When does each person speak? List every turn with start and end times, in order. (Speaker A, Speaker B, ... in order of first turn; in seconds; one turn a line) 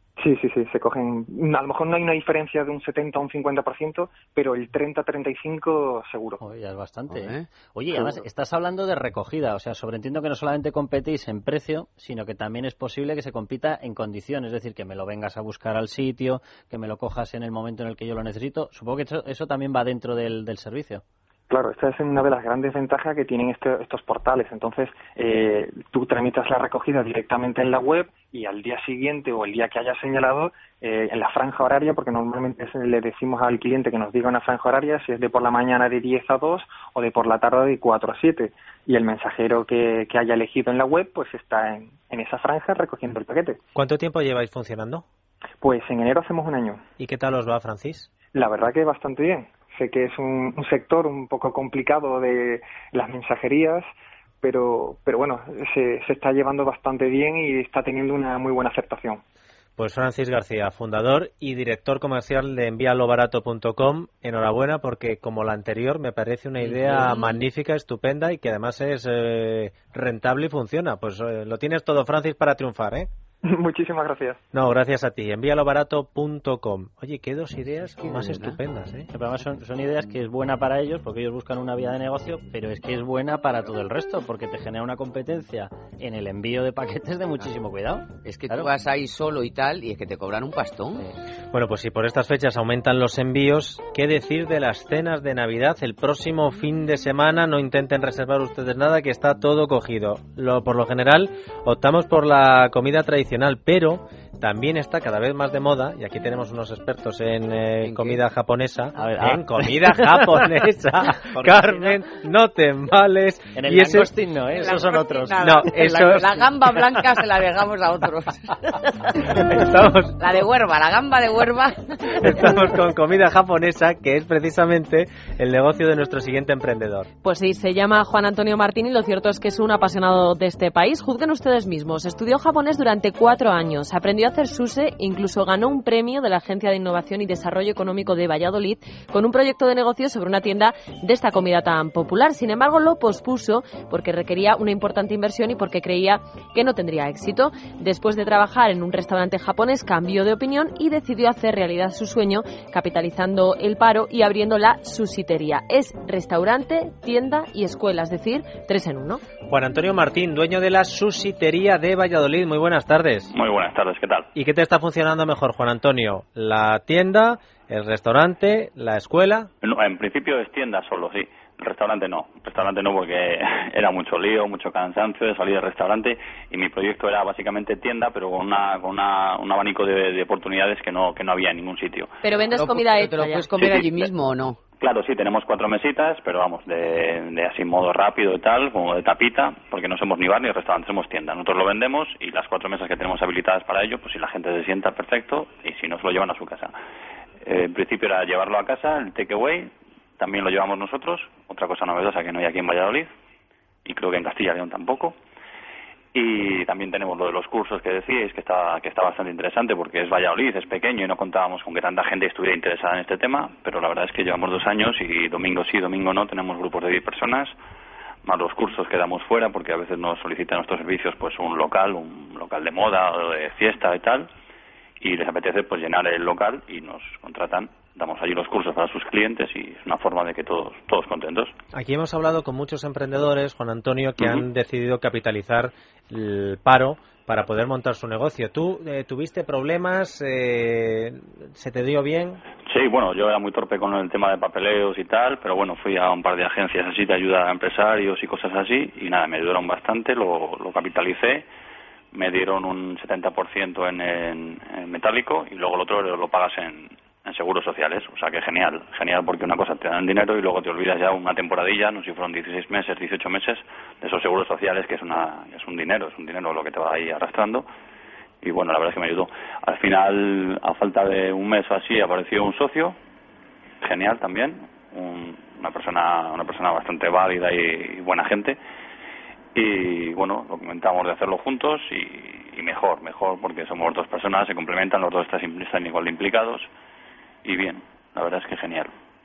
Speaker A: 0.2-6.4
Speaker B: 6.4-21.0
Speaker C: 7.1-8.3
Speaker A: 21.5-43.6
Speaker D: 43.8-45.0
Speaker A: 45.6-46.8
Speaker D: 47.0-48.1
Speaker A: 48.3-53.9
Speaker A: 54.4-59.2
Speaker D: 59.8-73.1
Speaker C: 66.6-67.2
Speaker A: 73.5-74.4
Speaker D: 74.5-79.1
Speaker C: 78.0-78.6
Speaker B: 79.1-88.7
Speaker C: 88.2-91.0
Speaker D: 91.5-114.1
Speaker C: 107.8-108.2
Speaker B: 109.0-110.5
Speaker B: 111.3-112.0
Speaker B: 113.5-116.3
Speaker C: 114.6-119.6
Speaker D: 115.4-116.3
Speaker D: 119.4-120.2
Speaker C: 120.2-122.6
Speaker D: 122.2-127.1
Speaker E: 127.2-159.2
Speaker D: 159.5-163.3
Speaker F: 163.3-164.3
Speaker D: 164.3-169.5
Speaker F: 169.6-182.1
Speaker E: 182.2-183.5
Speaker C: 182.5-184.6
Speaker F: 183.6-184.1
Speaker F: 184.8-196.7
Speaker F: 197.4-203.1
Speaker F: 203.8-205.2
Speaker F: 206.1-217.5
Speaker F: 218.2-224.3
Speaker F: 225.0-231.5
Speaker D: 231.7-242.4
Speaker F: 242.7-251.5
Speaker F: 252.1-267.7
Speaker F: 268.4-273.0
Speaker F: 273.8-278.6
Speaker F: 279.6-286.7
Speaker F: 287.4-288.9